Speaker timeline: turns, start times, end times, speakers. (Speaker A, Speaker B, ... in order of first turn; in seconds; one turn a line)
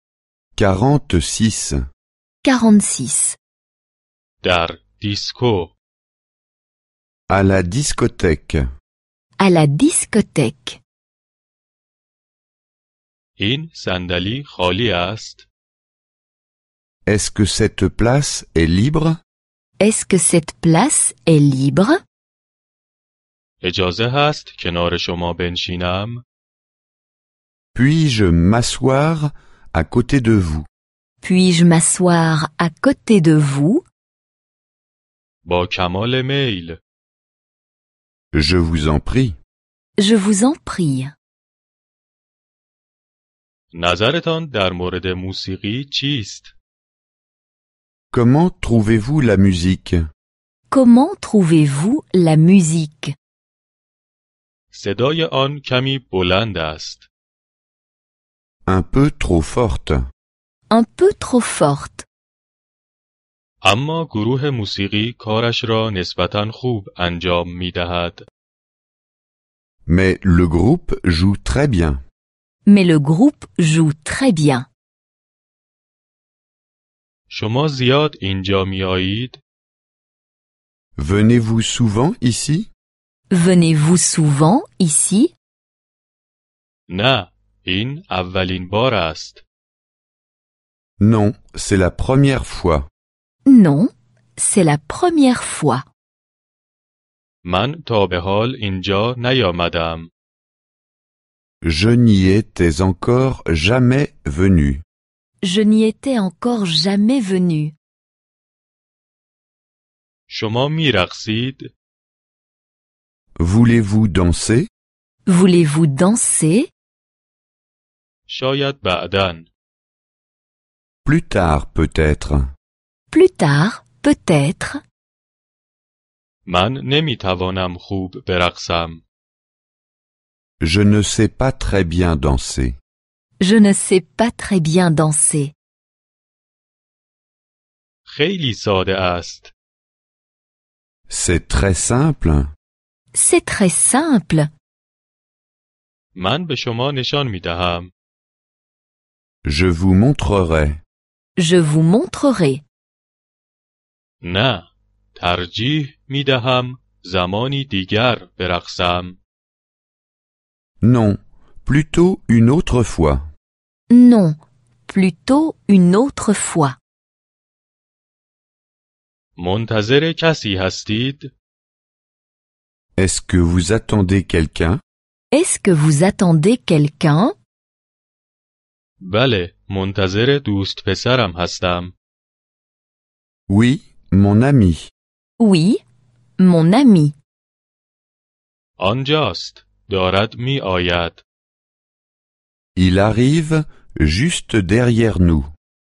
Speaker A: 0.6-1.8
Speaker B: 2.4-3.4
Speaker C: 4.4-5.8
Speaker A: 7.3-8.6
Speaker B: 9.4-10.8
Speaker C: 13.4-15.5
Speaker A: 17.1-19.2
Speaker B: 19.8-22.0
Speaker C: 23.6-26.2
Speaker A: 27.7-30.7
Speaker B: 31.2-33.9
Speaker C: 35.5-36.8
Speaker A: 38.3-39.4
Speaker B: 40.0-41.1
Speaker C: 43.7-46.6
Speaker A: 48.1-50.0
Speaker B: 50.7-53.1
Speaker C: 54.7-57.1
Speaker A: 58.7-60.0
Speaker B: 60.7-62.1
Speaker C: 63.6-68.3
Speaker A: 69.9-72.0
Speaker B: 72.7-74.7
Speaker C: 77.3-79.4
Speaker A: 81.0-82.7
Speaker B: 83.3-85.3
Speaker C: 86.9-89.4
Speaker A: 91.0-92.9
Speaker B: 93.5-95.8
Speaker C: 97.5-100.1
Speaker A: 101.6-104.8
Speaker B: 105.4-107.8
Speaker C: 110.3-111.7
Speaker A: 113.4-114.7
Speaker B: 115.3-116.7
Speaker C: 118.3-119.5
Speaker A: 121.0-122.5
Speaker B: 123.1-124.8
Speaker C: 126.5-129.0
Speaker A: 130.6-132.8
Speaker B: 133.4-135.5
Speaker C: 138.1-139.5
Speaker A: 141.1-142.5
Speaker B: 143.1-144.5
Speaker C: 146.2-147.9
Speaker A: 149.4-150.8
Speaker B: 151.4-152.6
Speaker C: 154.2-159.2
Speaker A: 160.8-163.3
Speaker B: 163.9-166.8
Speaker C: 169.4-171.3
Speaker A: 173.0-174.8
Speaker B: 175.3-177.3
Speaker C: 179.0-181.9
Speaker A: 183.5-184.9
Speaker B: 185.4-185.8
Speaker B: 186.4-187.2
Speaker C: 188.8-191.2
Speaker A: 192.8-195.5